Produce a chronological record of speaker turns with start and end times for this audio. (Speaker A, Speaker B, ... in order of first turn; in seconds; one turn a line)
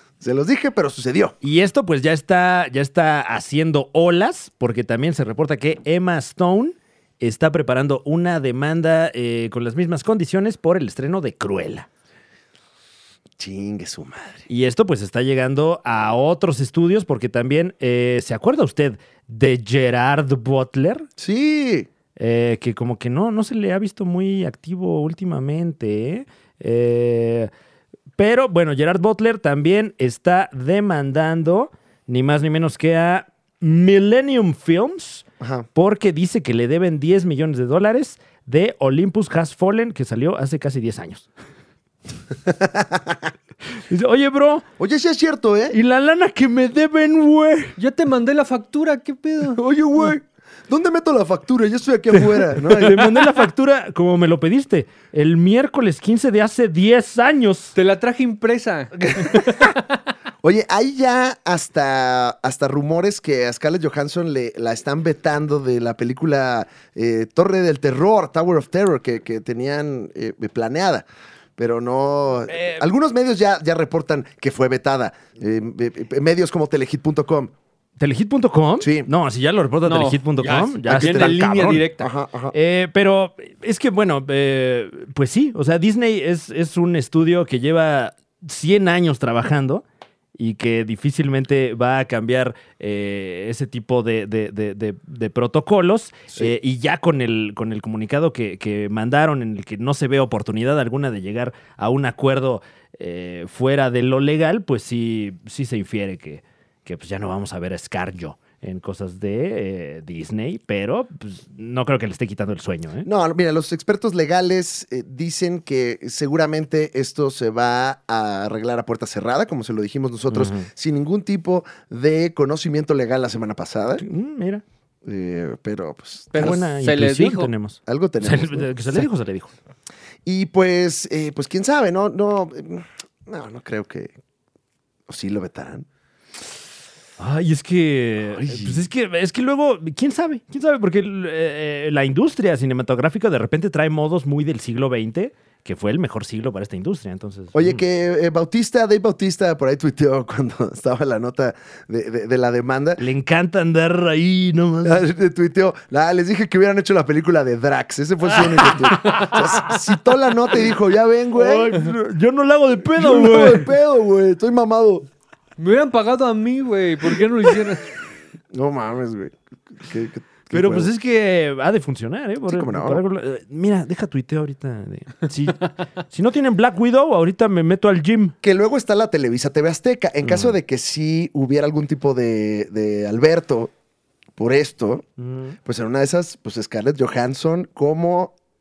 Speaker A: 0.2-1.4
Speaker B: 1.4-11.9
Speaker A: 13.4-14.5
Speaker B: 14.5-21.1
Speaker A: 21.2-21.9
Speaker B: 22.1-27.5
Speaker B: 28.2-41.3
Speaker A: 35.4-35.7
Speaker A: 42.5-43.3
Speaker B: 43.7-44.6
Speaker A: 44.8-45.8
Speaker B: 45.7-47.7
Speaker C: 47.8-49.6
Speaker A: 49.5-53.3
Speaker B: 52.1-57.7
Speaker C: 57.7-59.8
Speaker A: 59.3-59.5
Speaker A: 60.4-71.0
Speaker A: 71.6-77.5
Speaker B: 72.5-72.8
Speaker B: 78.0-81.9
Speaker A: 78.8-79.1
Speaker C: 79.8-82.1
Speaker A: 80.9-81.4
Speaker A: 82.0-82.5
Speaker B: 82.5-89.8
Speaker B: 90.3-113.1
Speaker A: 113.0-124.0
Speaker B: 120.3-120.7
Speaker B: 124.0-124.6
Speaker A: 125.0-126.6
Speaker C: 126.3-127.5
Speaker B: 126.3-129.5
Speaker A: 127.8-129.1
Speaker A: 130.2-134.1
Speaker A: 135.1-135.8
Speaker B: 137.2-147.8
Speaker A: 138.4-138.8
Speaker A: 147.5-153.0
Speaker B: 153.0-155.0
Speaker A: 154.8-161.8
Speaker B: 158.6-158.9
Speaker B: 161.3-163.7
Speaker A: 162.9-165.1
Speaker C: 165.6-167.9
Speaker A: 168.5-170.9
Speaker B: 170.5-178.3
Speaker A: 172.5-173.0
Speaker A: 178.4-183.7
Speaker B: 180.2-180.5
Speaker A: 184.4-185.0
Speaker B: 185.2-185.6
Speaker A: 185.6-188.3